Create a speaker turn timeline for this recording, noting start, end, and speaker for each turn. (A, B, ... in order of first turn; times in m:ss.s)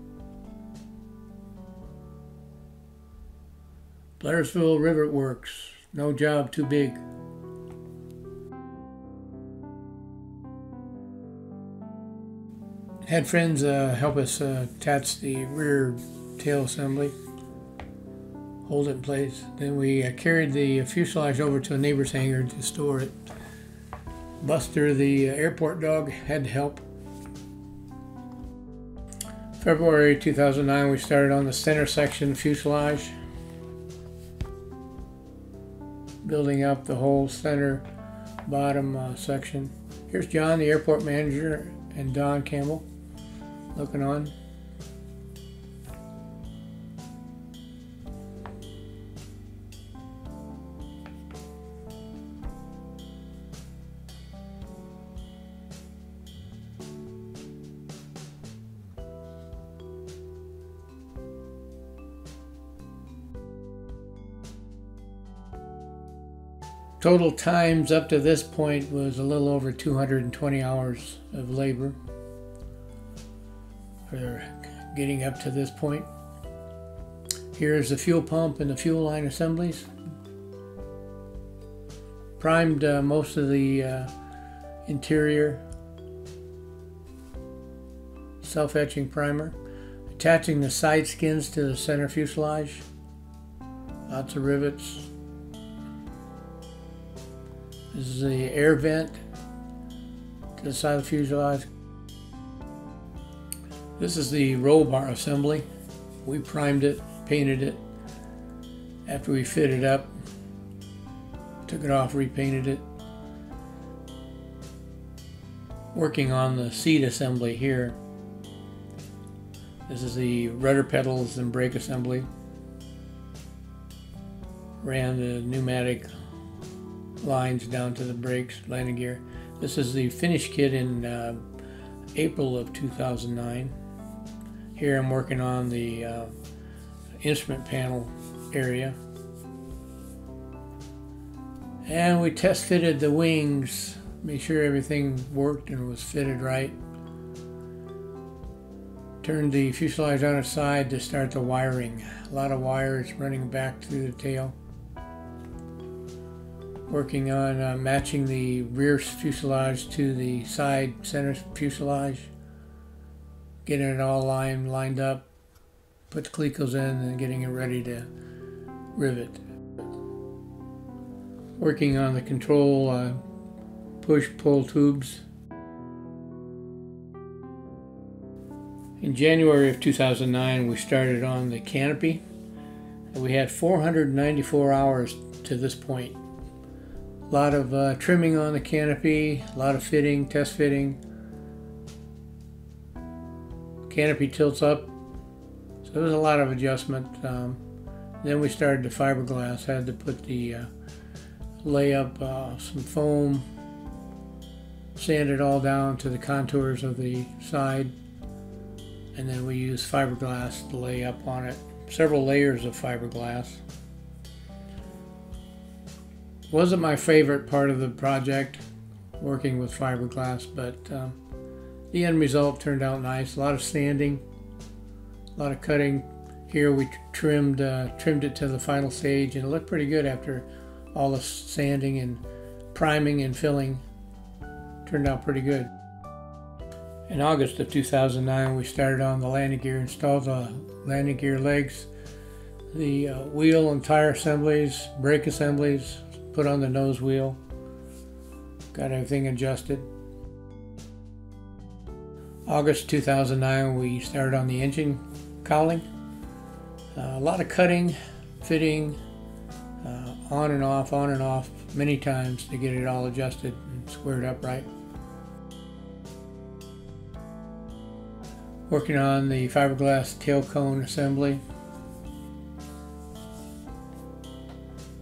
0:04.2-0:07.0 A
0:13.1-0:17.2 A
0:18.6-0:23.1 A
0:24.4-0:26.8 A
0:29.6-0:33.2 A
0:36.2-0:37.8 A
0:38.4-0:42.9 A
0:43.7-0:44.3 A
1:07.0-1:12.0 A
1:14.1-1:16.1 A
1:17.6-1:19.9 A
1:22.4-1:24.1 A
1:24.9-1:25.6 A
1:28.4-1:29.6 A
1:30.2-1:32.9 A
1:34.1-1:35.1 A
1:37.9-1:39.2 A
1:40.6-1:41.7 A
1:44.0-1:45.6 A
1:46.2-1:47.8 A
1:49.1-1:50.1 A
1:51.7-1:52.8 A
1:55.9-1:58.0 A
1:59.9-2:02.3 A
2:04.8-2:06.1 A
2:07.2-2:11.4 A
2:12.2-2:13.7 A
2:14.8-2:16.3 A
2:17.2-2:19.0 A
2:21.8-2:26.8 A
2:29.2-2:34.6 A
2:36.9-2:42.3 A
2:43.6-2:45.3 A
2:46.1-2:48.1 A
2:49.0-2:49.4 A
2:51.6-2:53.2 A
2:54.0-2:55.2 A
2:59.0-3:02.2 A
3:03.1-3:06.2 A
3:07.3-3:11.0 A
3:13.9-3:14.9 A
3:15.8-3:17.6 A
3:18.2-3:20.7 A
3:21.6-3:23.4 A
3:25.0-3:27.9 A
3:29.2-3:33.6 A
3:36.5-3:38.6 A
3:39.2-3:41.2 A
3:41.9-3:44.2 A
3:45.4-3:52.2 A
3:52.7-3:53.8 A
3:54.8-3:55.7 A
3:57.1-4:01.9 A
4:02.7-4:07.4 A
4:08.7-4:09.9 A
4:12.5-4:15.9 A
4:17.0-4:19.0 A
4:19.8-4:24.7 A
4:28.7-4:31.4 A